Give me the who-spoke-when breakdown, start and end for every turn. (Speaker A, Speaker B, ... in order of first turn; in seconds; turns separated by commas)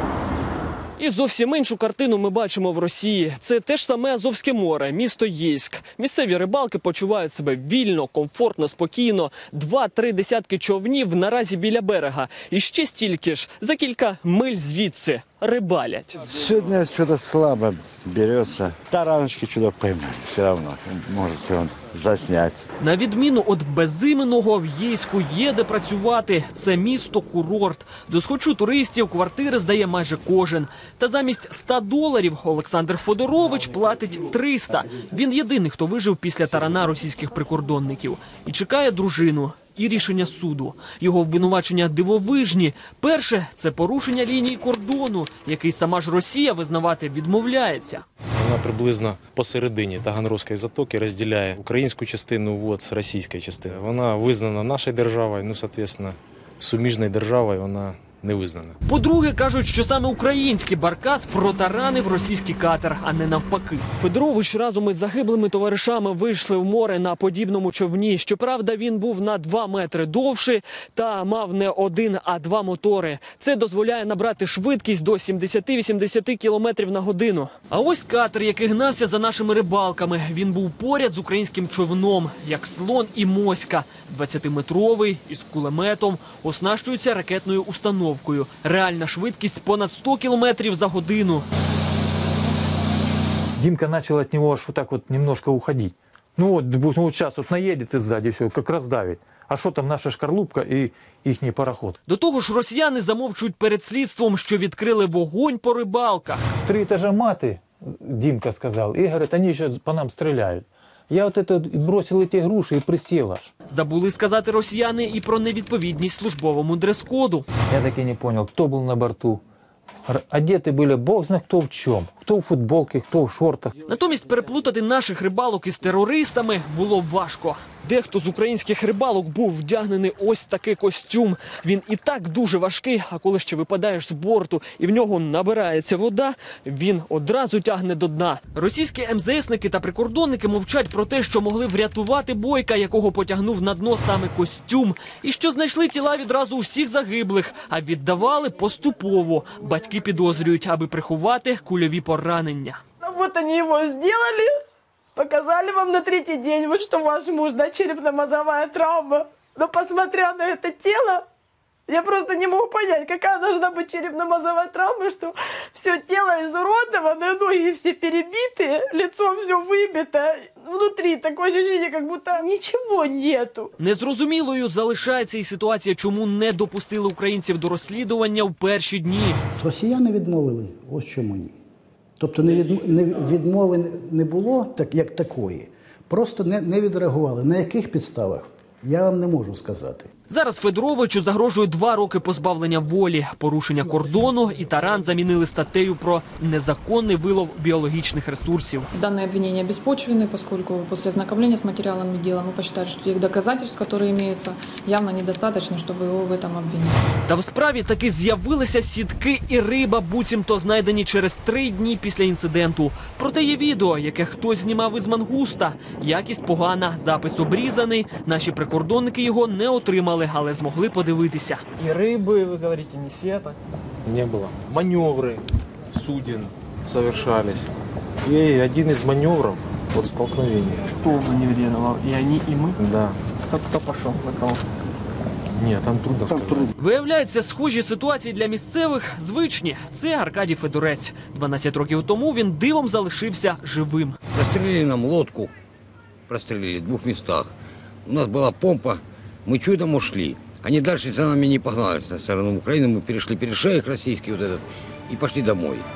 Speaker A: 1.0-16.1, Speaker B: 16.2-22.6, Speaker A: 22.8-48.0, Speaker C: 48.4-58.7, Speaker A: 58.9-91.5, Speaker D: 93.6-102.0, Speaker A: 102.1-106.5, Speaker D: 106.6-113.5, Speaker A: 113.7-117.5, Speaker D: 117.7-119.4, Speaker D: 120.1-123.8, Speaker A: 123.8-152.8, Speaker E: 153.0-154.5, Speaker E: 155.2-161.2, Speaker E: 161.9-173.7, Speaker A: 173.8-179.4, Speaker F: 179.6-181.5, Speaker F: 182.2-190.1, Speaker A: 190.3-198.9, Speaker G: 198.9-207.0, Speaker A: 207.3-221.6, Speaker H: 221.9-223.3, Speaker C: 224.0-227.7, Speaker C: 228.2-230.9, Speaker H: 231.1-232.7, Speaker C: 232.8-233.2, Speaker H: 233.5-234.2, Speaker C: 235.6-236.7, Speaker A: 236.8-244.2, Speaker I: 244.3-245.5, Speaker I: 246.3-247.5, Speaker I: 248.1-255.8